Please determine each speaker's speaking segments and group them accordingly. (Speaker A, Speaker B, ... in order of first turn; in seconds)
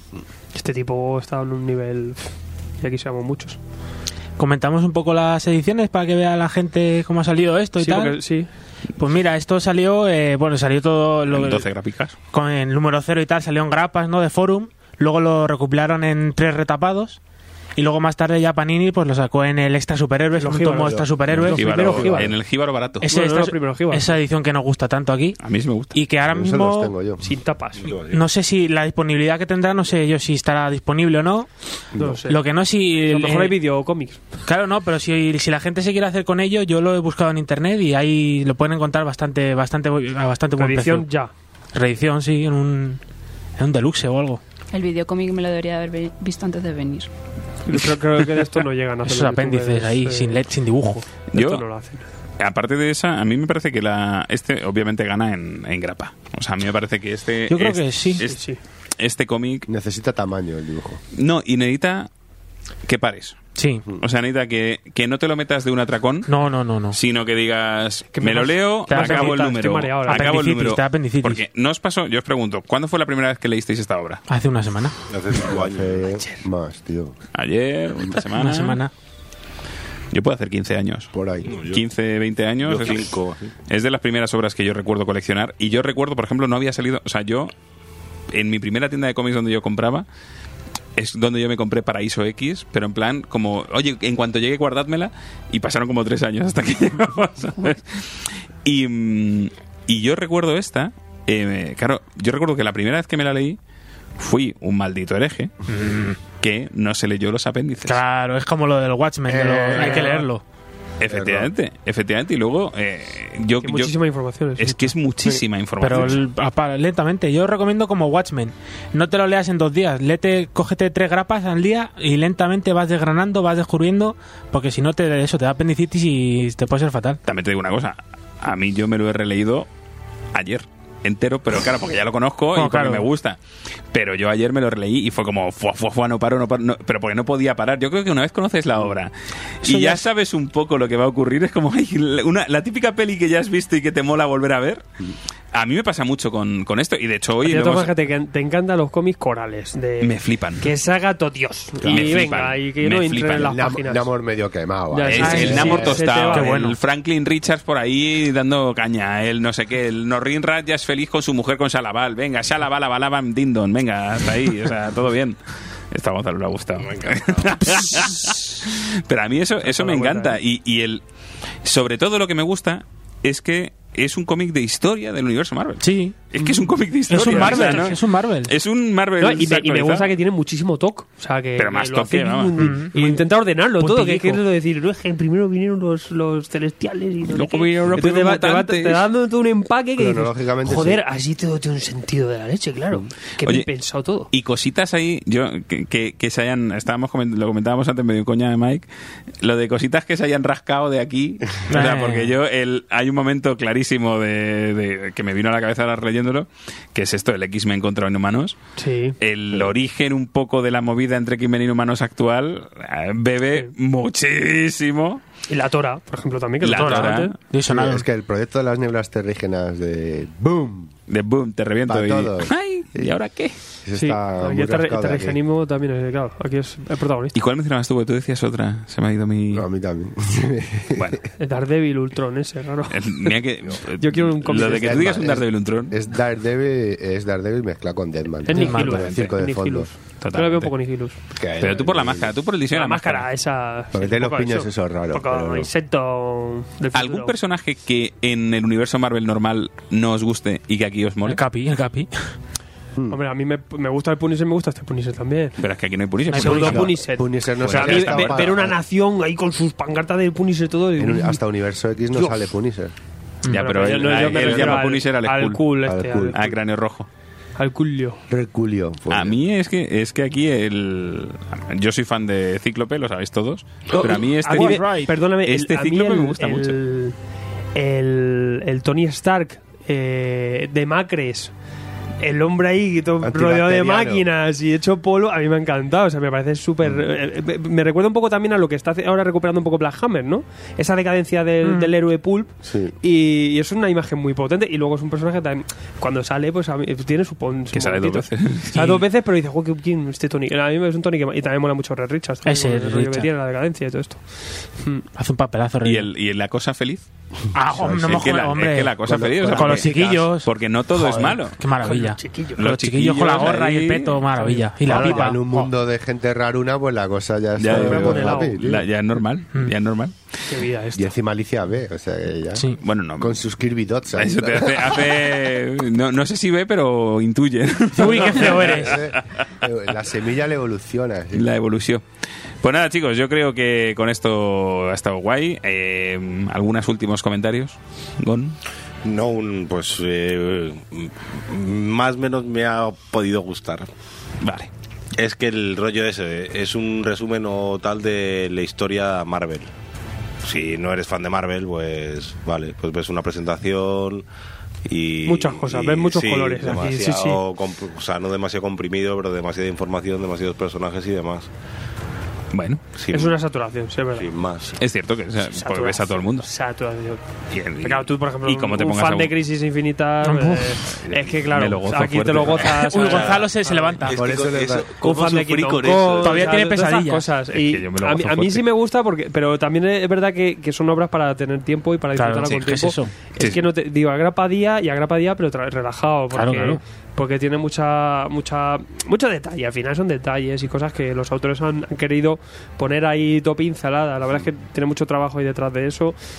Speaker A: 0.5-3.6, 7.8-8.5, 20.4-22.3, 23.0-24.1, 27.2-27.9, 32.0-32.4, 33.1-34.2, 40.6-41.3, 47.6-50.4, 51.3-52.0, 58.2-58.6, 68.1-70.5, 113.6-114.9, 147.4-154.1, 154.9-156.5, 169.6-170.3, 177.2-177.9, 179.2-194.3, 208.8-209.2, 215.5-217.3, 223.9-227.3, 231.4-233.3, 234.0-235.1, 238.4-241.2, 242.7-247.3, 253.1-255.6, 256.3-261.4, 262.1-262.5, 263.5-266.5, 267.6-268.2, 274.0-277.1, 277.7-281.5, 282.2-305.1, 311.8-312.6, 314.4-315.3, 317.7-318.6, 320.5-321.1, 355.2-357.4, 363.1-364.7, 365.4-367.2, 367.8-374.1, 375.0-396.1
Speaker B: 4.4-8.2, 9.0-11.6, 12.3-17.2, 17.8-22.0, 23.0-25.4, 25.9-26.9, 28.1-31.5, 32.2-33.5, 34.4-41.1, 41.7-43.0, 43.6-44.4, 49.0-51.0, 57.5-58.2, 63.6-63.8, 66.3-67.0, 68.9-69.5, 70.1-71.4, 74.3-74.9, 78.3-78.9, 105.7-106.2, 107.8-110.4, 115.8-127.2, 132.5-133.1, 139.6-140.0, 155.2-155.7, 156.3-156.8, 175.8-178.5, 182.6-183.2, 183.8-184.4, 201.7-202.3, 216.8-218.1, 238.5-239.0, 251.2-252.1, 256.3-256.8, 274.6-275.1, 291.6-291.9, 302.4-303.3, 305.1-306.1, 307.5-315.7, 327.9-328.9, 370.2-370.8, 372.8-374.2, 376.2-377.3, 382.1-383.1, 386.3-386.8
Speaker C: 11.3-12.1, 21.5-23.0, 25.4-25.9, 51.3-51.6, 52.4-58.4, 59.0-59.7, 61.1-62.1, 62.9-63.4, 64.0-66.3, 66.9-74.2, 77.3-78.8, 80.1-81.1, 81.6-87.5, 88.3-90.0, 91.0-103.6, 104.2-105.6, 106.4-108.0, 111.0-113.9, 114.6-116.2, 127.2-129.7, 130.3-133.4, 133.9-144.8, 145.5-147.9, 150.0-150.7, 151.8-153.6, 155.1-165.4, 165.9-171.0, 171.6-180.1, 181.6-182.7, 187.3-189.1, 194.3-198.9, 199.4-208.6, 209.2-215.2, 216.6-217.3, 221.1-223.6, 227.3-229.7, 230.9-231.2, 232.9-236.0, 238.9-239.4, 240.2-240.7, 241.6-243.3, 246.9-251.4, 255.6-257.0, 257.6-258.5, 263.5-265.6, 266.3-267.1, 269.1-276.8, 297.7-299.0, 305.8-307.1, 308.1-311.6, 312.6-314.2, 317.6-320.1, 322.8-323.4, 324.1-329.2, 331.3-332.0, 332.6-338.6, 344.4-344.7, 362.5-362.9, 364.8-366.5, 367.5-369.3, 370.9-373.4, 377.5-378.6, 383.4-383.7
Speaker D: 20.8-21.5, 26.2-27.2, 31.9-32.2, 59.7-61.0, 75.5-77.1, 81.1-81.6, 109.3-110.3, 111.1-111.5, 151.8-152.2, 153.4-156.0, 189.9-191.0, 217.7-220.9, 221.9-223.1, 223.8-225.4, 229.5-231.2, 234.5-239.9, 241.3-242.3, 243.9-245.7, 256.6-258.8, 261.0-262.9, 264.3-264.8, 265.8-266.5, 268.3-269.4, 283.2-284.2, 292.6-292.9, 307.7-308.4, 309.0-310.3, 314.8-318.9, 320.9-325.1, 328.1-331.5, 374.1-374.9
Speaker E: 27.8-28.2, 75.1-76.1, 81.5-81.8, 82.6-83.5, 166.8-167.6, 339.0-343.9, 345.1-349.7, 350.4-354.2, 354.8-361.5, 362.9-363.4, 364.1-364.8, 374.1-376.6
Speaker F: 44.7-47.1